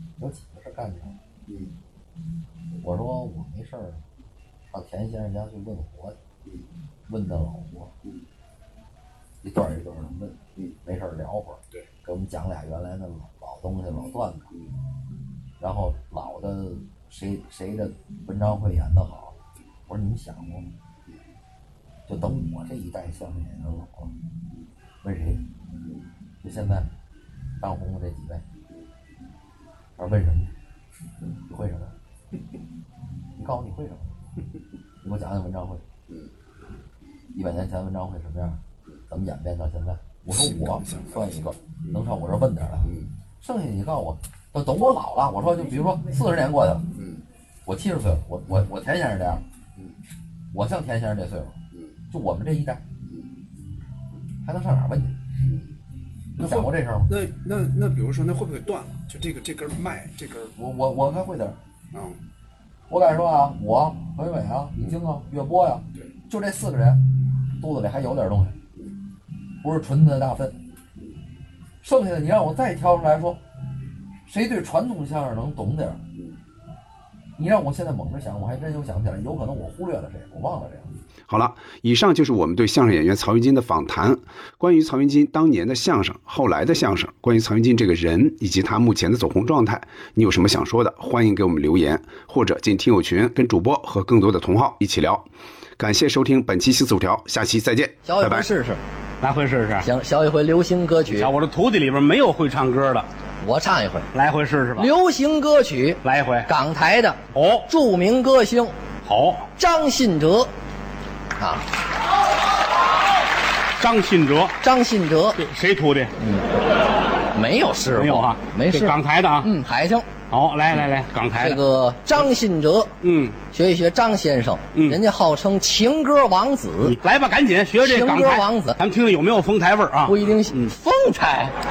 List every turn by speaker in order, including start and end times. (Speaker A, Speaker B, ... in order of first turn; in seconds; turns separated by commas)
Speaker A: 0.2-1.2, Speaker B: 1.5-1.7, Speaker A: 2.8-4.0, Speaker A: 4.7-6.2, Speaker A: 7.1-7.9, Speaker A: 9.4-14.5, Speaker A: 15.6-19.4, Speaker A: 19.9-20.7, Speaker A: 22.1-24.1, Speaker A: 25.0-25.4, Speaker A: 26.4-26.9, Speaker A: 27.6-28.4, Speaker A: 30.0-30.5, Speaker A: 31.5-31.9, Speaker A: 33.4-34.1, Speaker A: 35.0-35.8, Speaker A: 37.3-46.8, Speaker B: 40.3-42.0, Speaker B: 42.8-43.1, Speaker B: 47.0-47.2, Speaker A: 47.7-49.4, Speaker A: 50.5-51.6, Speaker A: 52.1-52.8, Speaker A: 54.5-55.2, Speaker B: 56.4-60.5, Speaker A: 56.4-57.1, Speaker A: 60.6-61.6, Speaker B: 61.9-62.2, Speaker A: 62.9-67.0, Speaker A: 67.6-68.6, Speaker A: 69.6-70.6, Speaker A: 71.8-73.4, Speaker A: 74.3-76.0, Speaker A: 77.4-81.0, Speaker B: 81.3-98.5, Speaker C: 98.0-98.8, Speaker D: 99.2-99.9, Speaker C: 99.8-101.3, Speaker D: 101.1-103.1, Speaker C: 103.4-104.1, Speaker D: 104.1-104.9, Speaker C: 104.8-108.8, Speaker D: 106.0-106.5, Speaker D: 107.3-107.7, Speaker D: 109.0-109.5, Speaker C: 109.6-110.5, Speaker C: 111.4-111.7, Speaker D: 113.8-114.6, Speaker C: 114.6-115.4, Speaker D: 115.4-116.1, Speaker C: 116.2-116.5, Speaker C: 117.3-120.1, Speaker D: 118.0-119.5, Speaker D: 120.3-121.6, Speaker C: 121.3-122.9, Speaker D: 123.0-123.4, Speaker C: 123.5-127.0, Speaker D: 124.7-125.0, Speaker D: 126.8-130.7, Speaker C: 127.8-128.8, Speaker C: 130.1-131.6